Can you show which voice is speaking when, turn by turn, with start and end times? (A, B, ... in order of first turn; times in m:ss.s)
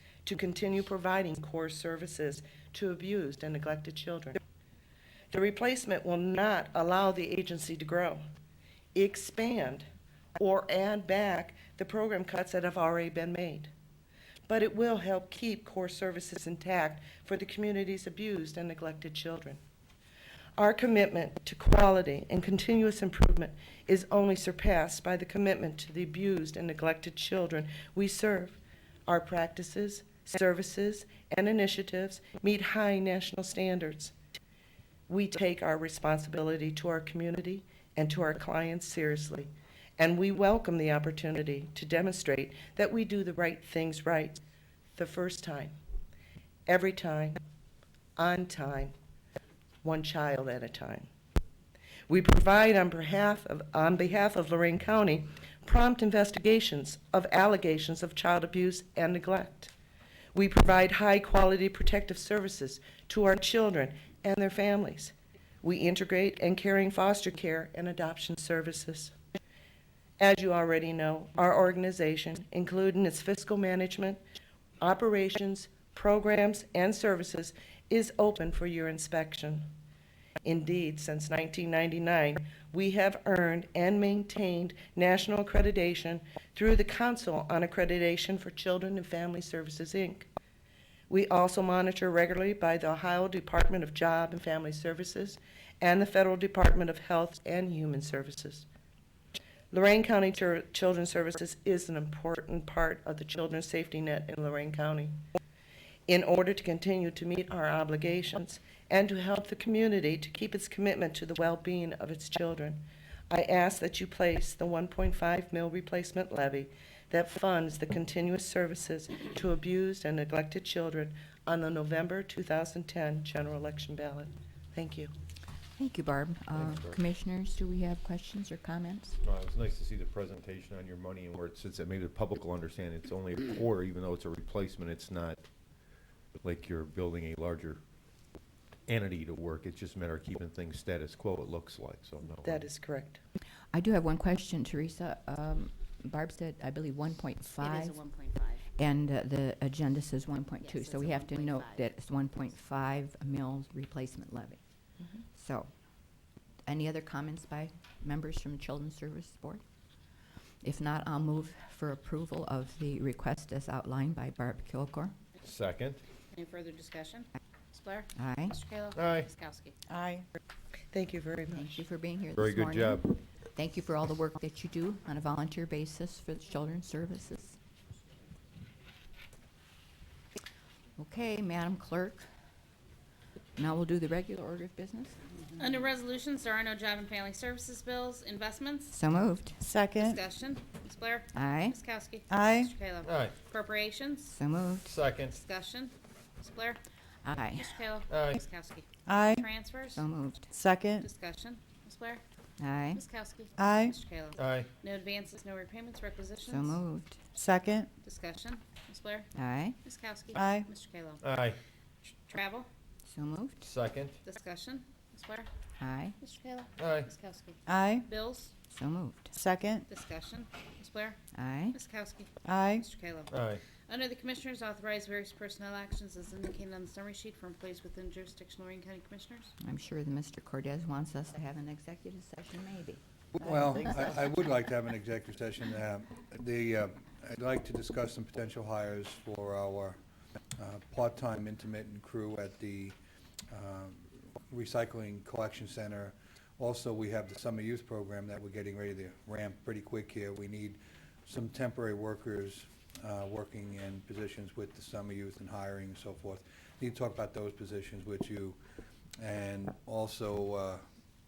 0:00.2-0:04.4 A
0:05.3-0:08.2 A
0:08.9-0:09.8 A
0:10.4-0:13.7 A
0:14.5-0:19.6 A
0:20.6-0:34.1 A
0:35.1-0:44.4 A
0:44.9-0:45.8 A
0:46.7-0:47.4 A
0:48.2-0:48.9 A
0:49.8-0:51.1 A
0:52.1-0:59.7 A
1:00.3-1:09.2 A
1:10.2-1:14.2 A
1:14.8-1:19.6 A
1:20.4-1:30.3 A
1:31.1-1:38.7 A
1:39.7-1:45.2 A
1:46.1-2:05.1 A
2:05.8-2:09.2 B
2:06.6-2:07.0 C
2:09.2-2:15.4 C
2:16.4-2:17.8 C
2:18.9-2:22.7 C
2:22.4-2:23.2 A
2:23.7-2:28.0 B
2:27.6-2:28.6 D
2:28.8-2:34.6 B
2:30.6-2:31.8 D
2:35.3-2:35.7 B
2:36.7-2:39.6 B
2:40.6-2:45.1 B
2:45.4-2:46.0 C
2:46.3-2:49.7 D
2:48.2-2:48.6 B
2:49.0-2:49.3 C
2:49.9-2:50.3 E
2:50.9-2:51.8 A
2:51.5-2:57.6 B
2:52.4-2:53.1 C
3:01.0-3:02.2 B
3:03.6-3:05.2 B
3:05.6-3:09.0 D
3:08.9-3:09.6 B
3:09.6-3:10.1 E
3:09.9-3:14.4 D
3:11.3-3:11.8 B
3:12.3-3:12.7 E
3:13.0-3:13.4 C
3:14.3-3:14.9 B
3:14.8-3:15.4 C
3:15.3-3:16.8 D
3:17.2-3:17.8 B
3:17.4-3:20.0 D
3:18.1-3:18.4 C
3:19.1-3:19.4 E
3:19.9-3:20.5 B
3:20.5-3:21.1 E
3:21.0-3:22.2 D
3:22.6-3:23.0 B
3:23.0-3:26.8 D
3:23.6-3:24.0 E
3:24.4-3:24.7 C
3:26.5-3:27.2 B
3:27.4-3:27.9 E
3:28.0-3:29.3 D
3:29.4-3:29.8 B
3:29.8-3:31.2 D
3:30.4-3:30.7 E
3:31.2-3:31.6 C
3:32.3-3:32.7 D
3:33.1-3:33.7 B
3:33.6-3:34.2 C
3:34.2-3:35.5 D
3:35.8-3:36.2 B
3:36.2-3:38.5 D
3:36.8-3:37.1 C
3:37.7-3:38.1 E
3:38.7-3:39.4 B
3:39.4-3:39.8 E
3:39.9-3:41.2 D
3:41.3-3:41.8 B
3:41.7-3:49.5 D
3:42.4-3:42.8 E
3:43.3-3:43.6 C
3:49.6-3:54.0 B
3:53.4-4:00.0 F
4:00.6-4:03.0 F
4:03.5-4:18.6 F
4:19.2-4:20.8 F